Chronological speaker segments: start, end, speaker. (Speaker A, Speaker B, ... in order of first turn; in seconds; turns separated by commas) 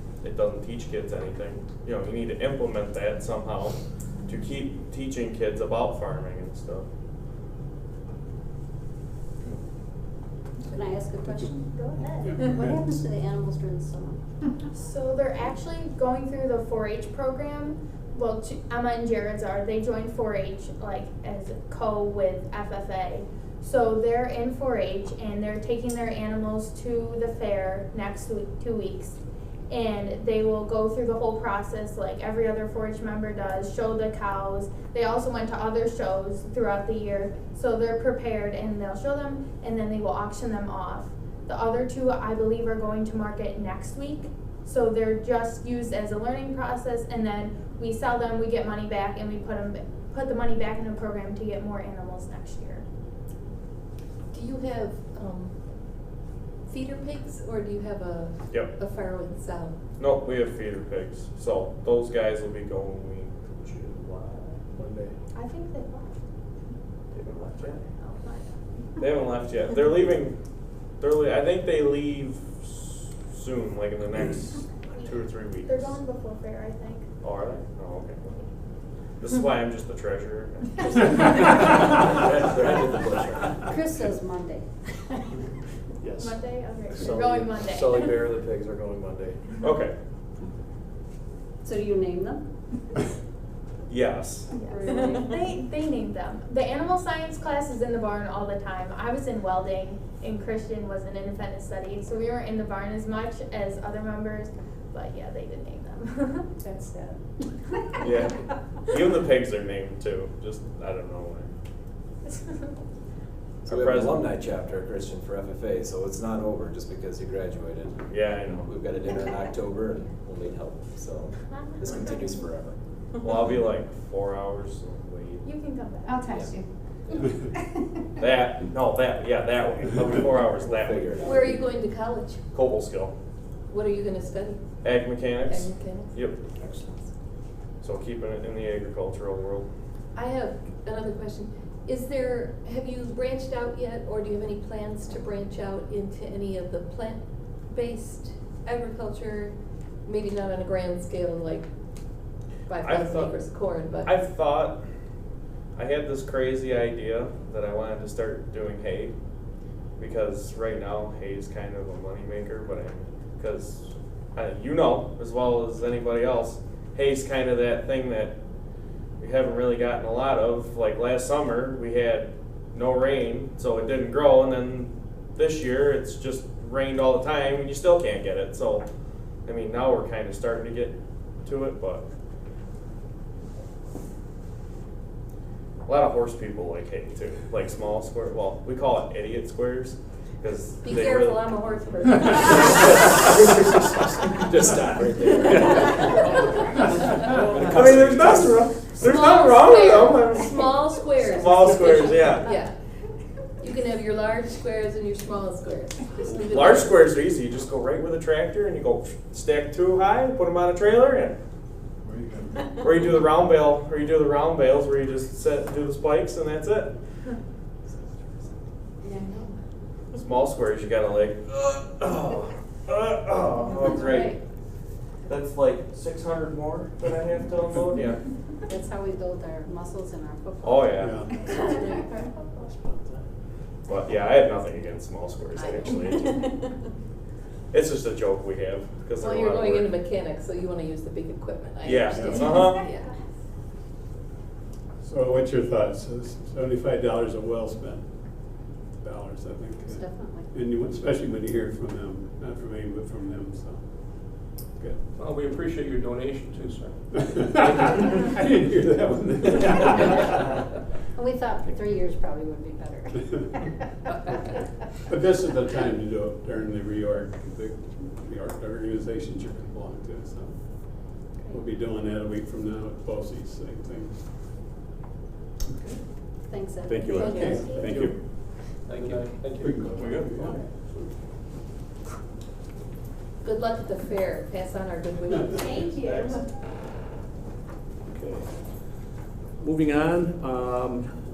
Speaker A: 0.2-6.8, Speaker B: 10.7-14.2, Speaker C: 12.2-13.0, Speaker D: 14.7-29.2, Speaker D: 29.7-52.8, Speaker E: 54.3-55.6, Speaker E: 56.7-59.8, Speaker A: 60.0-64.6, Speaker F: 64.8-65.1, Speaker D: 65.3-66.2, Speaker A: 67.1-67.8, Speaker D: 67.7-68.5, Speaker A: 69.0-70.4, Speaker A: 71.0-76.0, Speaker D: 75.6-77.1, Speaker A: 77.2-78.5, Speaker A: 79.2-81.2, Speaker G: 82.0-83.6, Speaker B: 83.6-85.2, Speaker D: 86.2-88.1, Speaker F: 87.2-89.3, Speaker A: 89.6-89.9, Speaker B: 91.6-92.4, Speaker A: 93.9-94.5, Speaker D: 94.6-106.5, Speaker B: 94.6-95.3, Speaker A: 108.0-111.5, Speaker D: 112.3-112.6, Speaker A: 113.7-114.3, Speaker G: 113.7-122.8, Speaker A: 118.1-118.7, Speaker D: 121.5-122.5, Speaker A: 123.2-125.5, Speaker D: 125.4-126.3, Speaker B: 126.1-126.6, Speaker G: 126.2-126.6, Speaker A: 128.2-131.2, Speaker G: 130.8-131.8, Speaker E: 131.2-132.4, Speaker A: 132.5-133.1, Speaker E: 133.7-134.6, Speaker A: 134.8-136.4, Speaker E: 135.4-136.2, Speaker E: 136.7-137.0, Speaker A: 137.8-139.7, Speaker E: 140.1-149.5, Speaker E: 150.1-151.7, Speaker E: 152.7-154.1, Speaker A: 152.8-153.4, Speaker A: 154.0-154.8, Speaker A: 155.8-159.1, Speaker A: 160.0-168.3, Speaker A: 169.2-178.9, Speaker A: 179.4-182.0, Speaker A: 185.8-191.4, Speaker E: 190.8-193.0, Speaker G: 194.4-196.3, Speaker E: 195.4-196.4, Speaker F: 197.2-198.3, Speaker G: 197.3-198.4, Speaker A: 197.4-202.5, Speaker E: 199.0-202.7, Speaker E: 203.6-207.0, Speaker A: 206.5-211.3, Speaker G: 212.1-212.4, Speaker A: 212.8-216.9, Speaker E: 219.1-219.5, Speaker A: 220.1-224.3, Speaker E: 223.9-224.4, Speaker A: 225.3-228.2, Speaker B: 228.7-232.1, Speaker A: 230.6-231.3, Speaker C: 231.0-231.3, Speaker D: 231.5-232.6, Speaker A: 232.8-233.2, Speaker A: 233.8-236.5, Speaker A: 237.7-239.9, Speaker E: 239.2-243.1, Speaker A: 241.8-242.8, Speaker C: 242.1-242.5, Speaker C: 245.0-248.1, Speaker C: 249.0-253.8, Speaker B: 249.9-250.5, Speaker C: 254.8-255.0, Speaker H: 255.2-257.9, Speaker C: 257.1-260.5, Speaker B: 261.1-263.7, Speaker E: 264.1-264.4, Speaker C: 265.1-274.3, Speaker B: 276.5-277.6, Speaker C: 276.8-278.2, Speaker E: 277.1-277.8, Speaker D: 277.3-277.9, Speaker H: 277.8-278.1, Speaker H: 278.9-281.1, Speaker C: 278.9-280.6, Speaker E: 283.4-285.9, Speaker D: 285.5-286.4, Speaker F: 288.1-289.0, Speaker F: 289.6-291.2